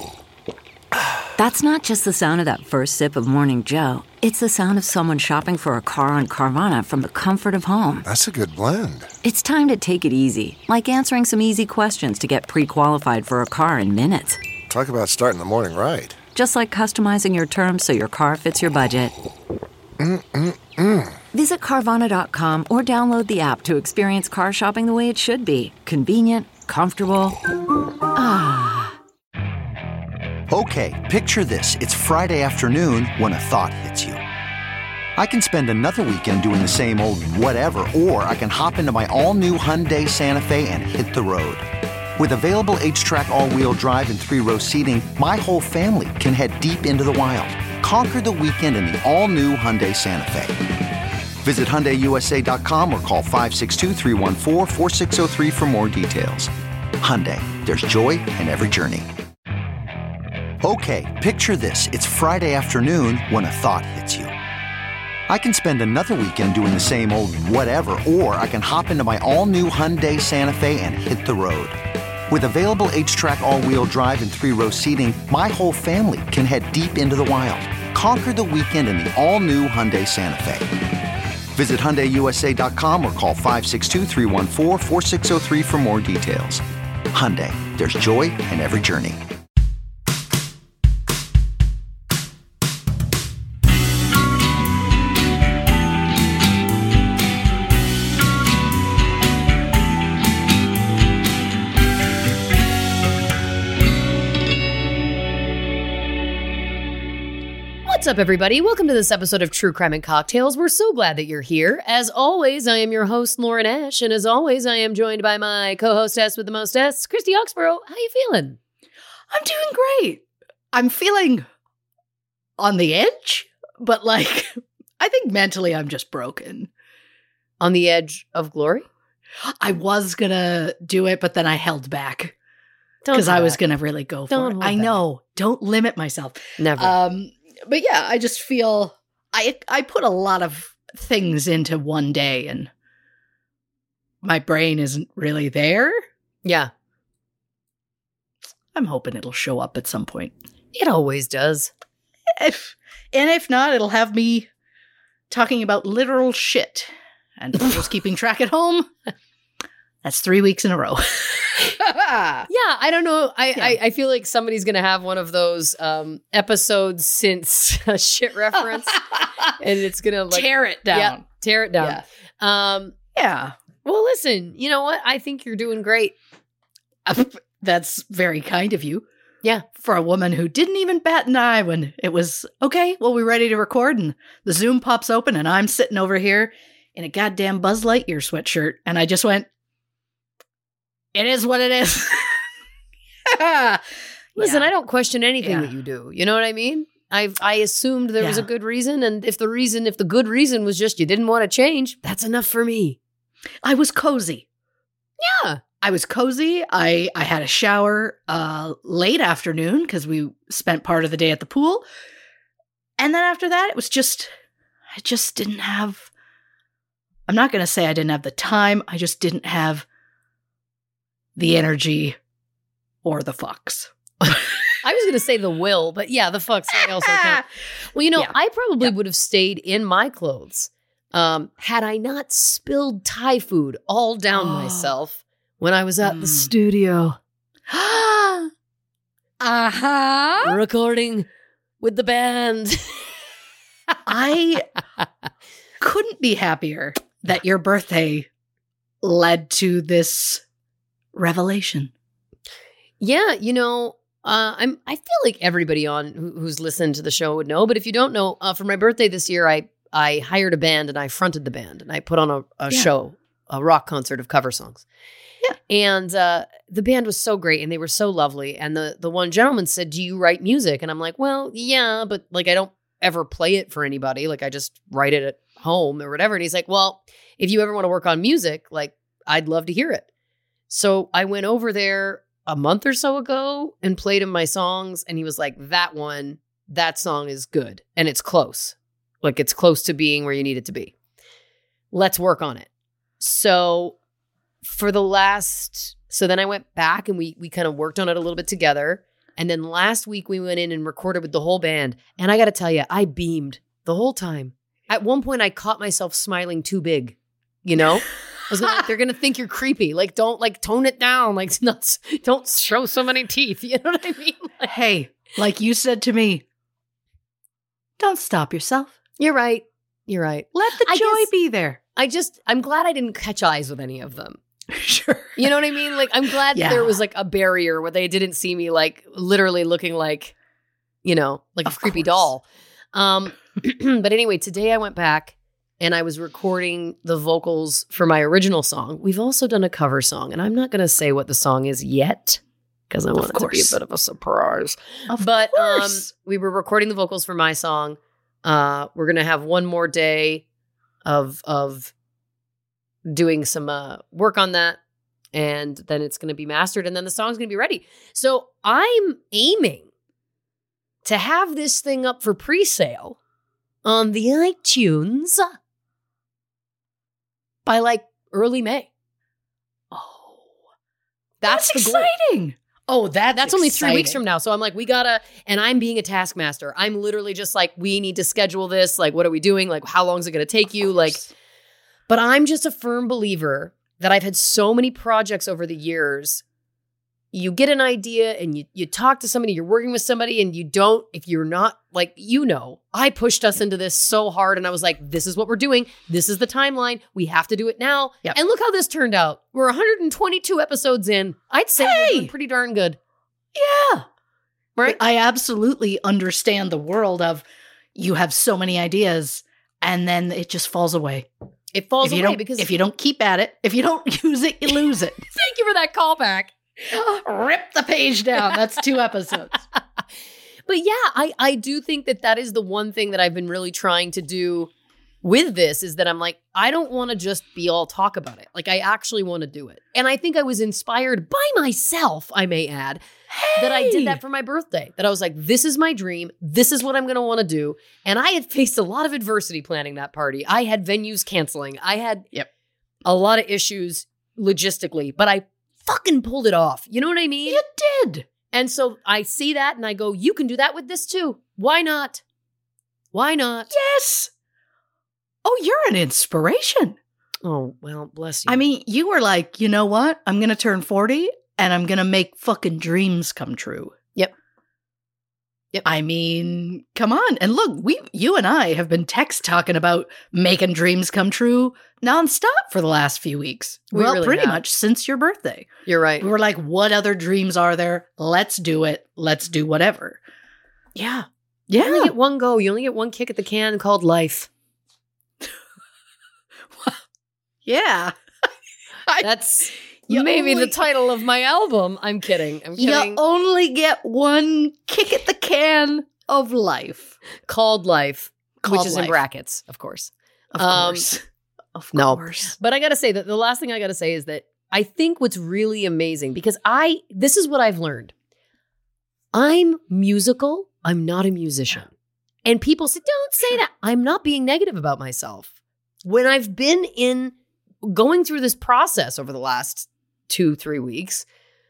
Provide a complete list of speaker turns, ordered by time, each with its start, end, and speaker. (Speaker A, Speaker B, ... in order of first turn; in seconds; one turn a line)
Speaker A: 1.4-8.0
Speaker B: 8.0-9.1
Speaker A: 9.2-14.4
Speaker B: 14.7-16.2
Speaker A: 16.3-19.1
Speaker B: 20.0-21.2
Speaker A: 21.3-27.4
Speaker A: 28.1-28.9
Speaker C: 30.5-34.2
Speaker C: 35.1-50.7
Speaker C: 51.4-59.1
Speaker C: 60.6-64.3
Speaker C: 65.3-80.7
Speaker C: 81.5-89.2
Speaker D: 107.8-118.6
Speaker E: 119.3-121.4
Speaker E: 122.6-126.7
Speaker D: 127.6-128.9
Speaker E: 129.4-132.3
Speaker D: 133.0-133.6
Speaker E: 133.1-142.7
Speaker D: 134.3-134.9
Speaker D: 136.6-136.9
Speaker E: 144.2-146.0
Speaker D: 146.4-146.7
Speaker E: 148.7-150.3
Speaker D: 150.7-151.7
Speaker E: 152.3-154.5
Speaker E: 155.3-158.9
Speaker E: 160.0-162.5
Speaker D: 162.5-169.0
Speaker E: 168.9-169.5
Speaker D: 169.6-172.9
Speaker E: 170.3-171.2
Speaker E: 173.1-173.6
Speaker D: 173.8-176.1
Speaker E: 177.0-179.1
Speaker E: 179.7-189.5
Speaker E: 191.1-192.4
Speaker E: 193.2-193.8
Speaker E: 194.4-194.7
Speaker D: 194.4-203.0
Speaker E: 195.4-195.7
Speaker E: 198.2-198.5
Speaker E: 203.6-204.4
Speaker D: 205.2-205.6
Speaker E: 205.8-211.8
Speaker E: 213.0-214.3
Speaker E: 214.9-216.1
Speaker E: 217.3-219.8
Speaker E: 221.3-222.2
Speaker E: 223.0-224.6
Speaker D: 224.2-236.5
Speaker E: 226.7-227.5
Speaker E: 228.2-228.9
Speaker E: 234.3-234.9
Speaker E: 236.0-237.2
Speaker E: 237.7-238.5
Speaker E: 239.4-240.6
Speaker D: 240.4-241.3
Speaker D: 241.8-243.1
Speaker E: 244.1-244.7
Speaker E: 245.8-248.3
Speaker E: 249.0-250.4
Speaker E: 251.1-251.9
Speaker D: 253.0-264.8
Speaker D: 265.7-280.1
Speaker D: 280.7-290.9
Speaker D: 291.9-292.7
Speaker D: 293.2-293.9
Speaker D: 294.6-314.7
Speaker E: 314.6-316.4
Speaker E: 318.0-318.9
Speaker D: 319.2-321.3
Speaker E: 320.5-321.8
Speaker D: 321.9-324.4
Speaker E: 324.7-325.5
Speaker D: 325.4-330.3
Speaker E: 326.5-326.9
Speaker D: 331.0-350.4
Speaker E: 331.6-332.3
Speaker E: 343.2-343.7
Speaker E: 345.1-346.1
Speaker D: 351.0-351.9
Speaker D: 353.0-354.8
Speaker D: 355.3-359.9
Speaker D: 361.0-363.2
Speaker D: 363.8-365.6
Speaker D: 367.6-368.9
Speaker E: 369.9-370.5
Speaker D: 371.4-372.1
Speaker E: 371.4-374.2
Speaker D: 373.4-381.2
Speaker D: 382.1-386.4
Speaker D: 387.3-403.0
Speaker E: 401.8-402.3
Speaker E: 403.5-404.1
Speaker E: 404.8-407.4
Speaker E: 407.9-411.3
Speaker D: 411.7-412.7
Speaker E: 412.0-415.2
Speaker D: 415.3-416.5
Speaker E: 416.9-419.6
Speaker D: 420.7-424.7
Speaker D: 425.2-433.0
Speaker E: 433.3-434.2
Speaker D: 433.6-442.3
Speaker D: 443.0-447.6
Speaker E: 447.4-448.3
Speaker D: 448.5-452.2
Speaker D: 453.1-453.7
Speaker E: 453.7-454.3
Speaker E: 455.4-457.0
Speaker D: 457.4-458.6
Speaker E: 458.5-464.0
Speaker E: 465.8-475.7
Speaker D: 473.9-474.6
Speaker D: 475.9-476.3
Speaker E: 476.2-480.2
Speaker E: 480.9-482.1
Speaker D: 481.8-484.5
Speaker E: 487.6-488.1
Speaker D: 489.2-493.2
Speaker E: 490.1-490.9
Speaker E: 492.8-497.1
Speaker D: 497.5-501.1
Speaker E: 498.6-499.2
Speaker E: 500.5-501.2
Speaker E: 501.7-502.5
Speaker D: 501.9-508.1
Speaker D: 509.3-511.9
Speaker D: 512.4-515.5
Speaker D: 516.0-521.2